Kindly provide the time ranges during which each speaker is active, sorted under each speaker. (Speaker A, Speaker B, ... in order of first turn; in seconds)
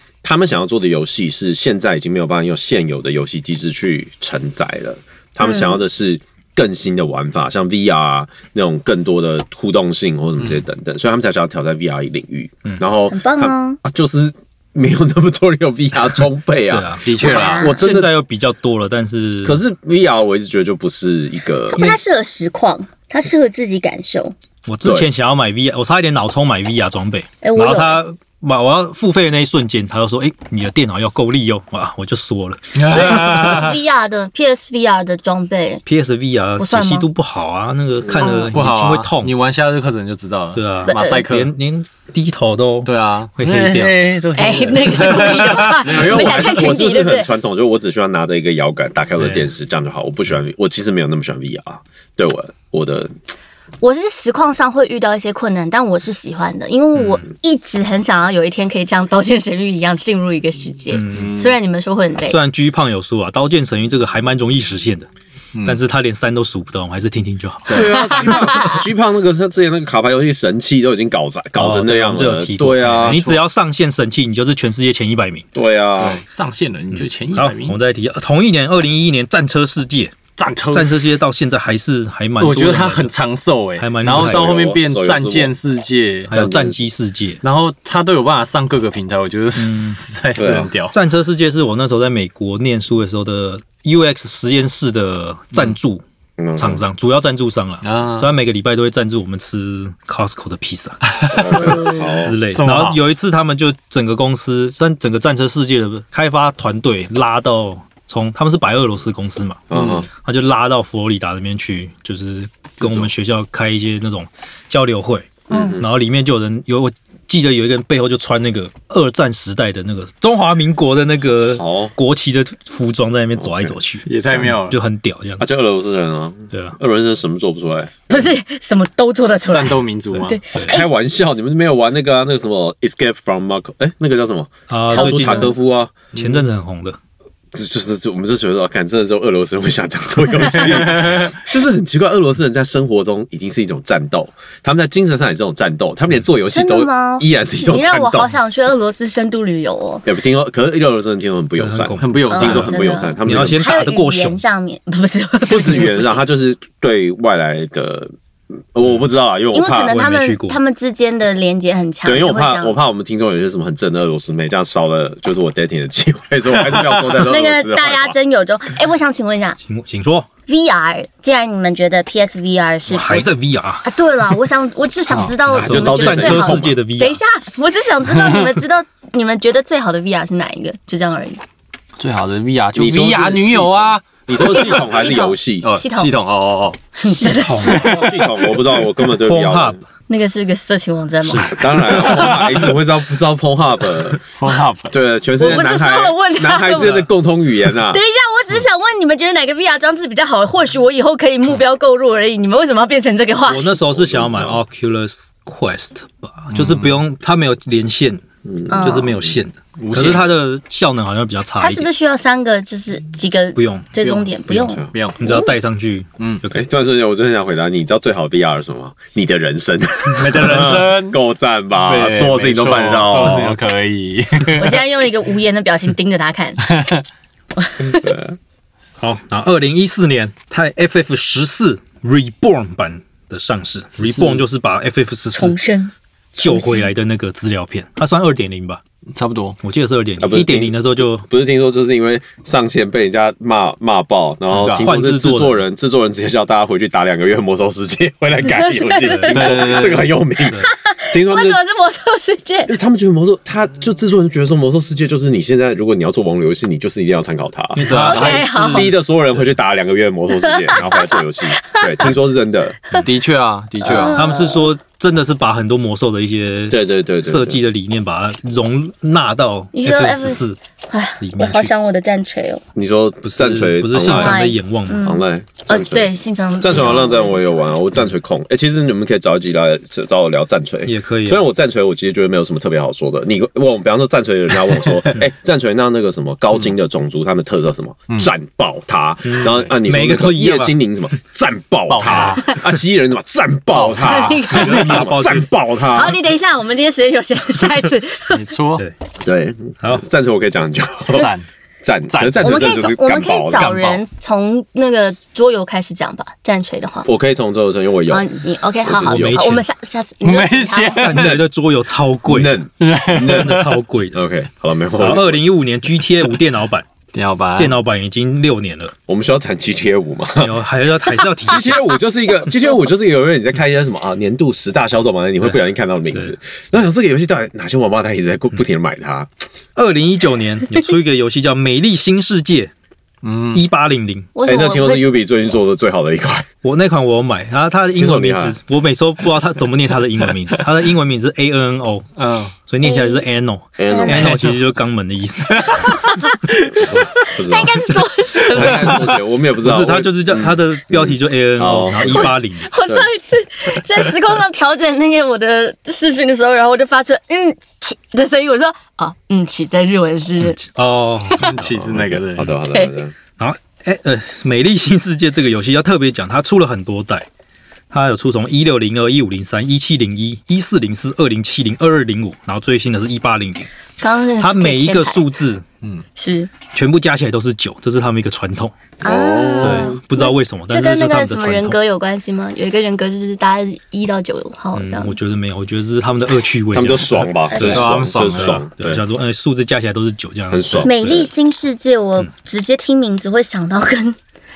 Speaker A: 0.2-18.1, 19.4-21.9, 24.8-25.1, 45.8-53.1, 67.7-73.2, 75.5-76.2, 84.0-85.5, 86.3-86.8, 90.4-90.7, 96.4-96.8, 101.3-102.4, 109.7-110.1, 112.8-113.1, 115.5-115.9, 121.5-121.9, 123.4-123.7, 125.4-128.3, 130.6-136.0, 137.5-148.3, 150.1-153.6, 155.5-158.1, 158.7-160.0, 162.0-168.2, 175.6-176.8, 182.8-185.7, 187.7-189.8, 191.5-194.2, 194.9-198.0, 203.8-204.6, 208.5-209.4, 214.7-215.3, 216.5-223.6, 227.8-228.4, 240.2-251.6, 252.7-263.0, 266.7-267.6, 272.8-274.4, 275.0-296.2, 299.2-301.3, 301.8-303.9, 307.1-308.3, 308.8-309.6, 311.2-311.4, 312.3-313.6, 314.1-315.4, 319.1-320.5, 321.4-329.3, 334.4-336.5, 337.9-338.6, 343.8-344.5, 346.7-352.4, 361.9-363.1, 379.0-380.0, 386.7-389.0, 390.5-391.2
Speaker B: 5.4-5.8, 13.1-13.8, 21.7-24.3, 27.4-28.0, 32.9-35.8, 36.6-37.1, 38.2-38.5, 40.9-41.2, 44.4-47.3, 53.8-62.4, 68.1-68.8, 115.5-115.8, 128.1-130.9, 134.9-135.5, 146.5-150.1, 152.3-156.2, 159.5-162.7, 167.2-169.6, 170.5-173.3, 173.8-181.4, 184.4-186.1, 187.0-187.8, 190.1-192.2, 195.4-197.1, 197.9-203.8, 208.7-209.2, 211.6-215.5, 224.6-226.6, 227.6-228.2, 235.3-236.9, 248.6-249.8, 250.6-252.7, 257.9-258.9, 260.6-262.1, 263.8-264.7, 269.7-272.6, 274.0-277.8, 294.0-294.9, 295.9-298.4, 302.4-307.1, 308.1-311.2, 334.4-335.1, 342.8-343.2, 343.9-344.2, 347.2-349.0, 352.1-360.6, 361.3-361.5, 374.0-375.3, 376.2-376.5, 379.0-385.2, 387.5-387.8, 390.8-394.2
Speaker C: 16.7-19.6, 24.7-33.3, 35.9-39.3, 40.5-44.0, 60.9-61.4, 62.3-65.1, 65.6-68.5, 71.6-75.5, 76.9-80.2, 80.7-83.1, 83.8-84.5, 86.3-87.4, 89.6-90.0, 90.9-96.0, 96.6-109.6, 110.2-125.5, 126.5-126.8, 130.6-130.8, 134.7-135.5, 136.1-137.0, 151.6-154.4, 159.8-160.6, 169.6-170.3, 172.9-173.9, 175.5-177.2, 187.0-188.1, 189.2-189.8, 191.2-192.0, 203.5-211.9, 213.6-213.9, 214.5-216.7, 220.3-220.9, 229.0-235.6, 236.4-238.8, 239.6-241.3, 244.7-245.6, 257.8-259.1, 264.0-270.6, 271.2-271.7, 273.2-275.1, 280.9-281.4, 289.3-290.7, 294.5-295.5, 309.1-309.6, 311.0-312.6, 313.2-314.2, 315.0-316.9, 317.6-318.9, 320.4-321.8, 329.8-332.7, 333.5-334.3, 336.6-342.1, 342.7-346.1, 349.6-352.7, 360.4-362.4, 363.4-367.3, 367.9-373.7, 374.4-375.6, 376.7-378.7, 379.6-381.8, 384.7-391.3
Speaker D: 17.0-17.8, 32.8-33.7, 38.5-41.5, 42.9-46.6, 61.1-61.6, 72.9-73.4, 76.0-77.8, 80.4-81.0, 82.4-86.4, 87.4-91.0, 97.8-98.3, 101.1-101.8, 102.5-103.0, 109.7-110.0, 124.1-124.8, 129.5-130.4, 136.1-136.4, 140.7-141.3, 152.0-152.8, 175.1-175.8, 182.0-184.9, 185.6-186.8, 187.7-188.4, 192.2-192.5, 194.2-194.9, 206.5-206.9, 209.8-210.3, 214.0-215.2, 216.2-216.4, 220.1-221.2, 221.8-224.8, 226.7-227.0, 234.0-234.4, 239.1-239.6, 244.5-244.9, 249.3-250.2, 257.8-258.4, 262.9-264.3, 289.4-289.7, 291.9-292.6, 293.8-294.3, 298.3-298.8, 301.1-301.5, 302.1-302.8, 303.6-304.0, 310.2-311.4, 312.8-313.7, 317.1-317.8, 333.2-333.6, 342.2-342.5, 361.4-362.6, 387.6-388.6